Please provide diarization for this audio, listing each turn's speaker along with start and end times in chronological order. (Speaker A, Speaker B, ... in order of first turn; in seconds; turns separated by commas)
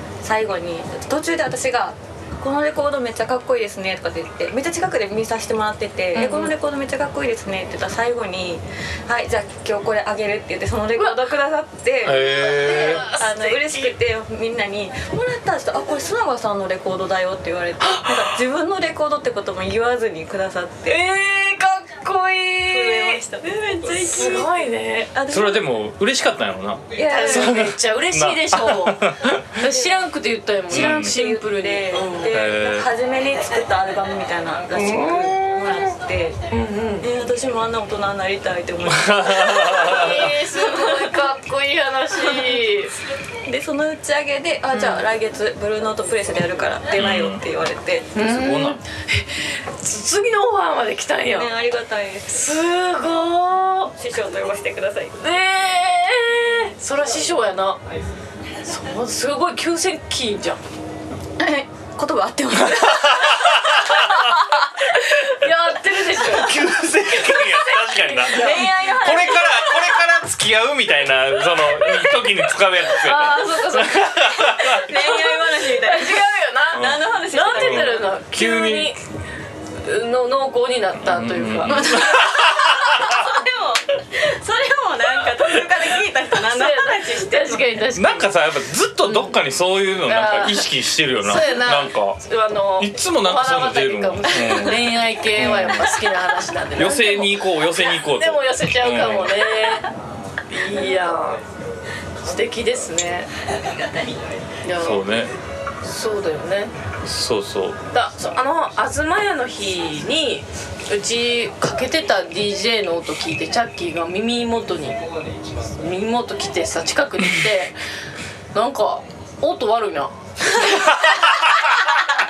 Speaker A: 0.2-21.0, Speaker B: 6.1-6.5, Speaker C: 12.0-13.1, Speaker B: 12.2-13.9, Speaker B: 17.8-18.4, Speaker B: 20.9-23.2, Speaker A: 22.6-24.6, Speaker B: 24.0-25.1, Speaker A: 25.1-25.6, Speaker C: 25.3-29.6, Speaker A: 26.9-27.6, Speaker B: 27.1-32.4, Speaker A: 29.6-30.1, Speaker A: 30.7-36.4, Speaker C: 30.7-31.2, Speaker C: 32.3-32.9, Speaker B: 34.7-35.9, Speaker B: 36.5-37.1, Speaker A: 37.0-41.2, Speaker C: 38.8-40.3, Speaker B: 39.5-42.9, Speaker A: 42.2-42.6, Speaker A: 43.5-48.1, Speaker B: 44.7-45.0, Speaker C: 47.0-47.4, Speaker B: 48.1-51.5, Speaker C: 48.2-48.8, Speaker A: 51.3-52.5, Speaker B: 52.3-53.9, Speaker A: 54.0-55.2, Speaker B: 55.2-57.8, Speaker B: 58.6-60.6, Speaker A: 61.4-63.6, Speaker C: 62.6-64.3, Speaker B: 63.3-69.2, Speaker A: 64.2-64.7, Speaker C: 66.2-74.8, Speaker A: 68.3-70.0, Speaker B: 72.9-79.0, Speaker A: 74.5-78.1, Speaker C: 76.7-77.0, Speaker C: 77.6-78.9, Speaker B: 79.8-83.3, Speaker C: 81.0-83.2, Speaker A: 81.7-87.8, Speaker B: 86.3-88.3, Speaker C: 88.0-92.2, Speaker B: 89.0-89.4, Speaker B: 90.0-99.9, Speaker C: 92.8-95.9, Speaker C: 96.8-99.5, Speaker B: 100.5-101.4, Speaker B: 102.2-103.3, Speaker B: 104.6-105.1, Speaker C: 104.8-105.3, Speaker B: 105.8-106.7, Speaker C: 107.0-107.8, Speaker B: 107.9-115.0, Speaker B: 115.8-117.7, Speaker B: 118.5-122.0, Speaker C: 120.6-122.0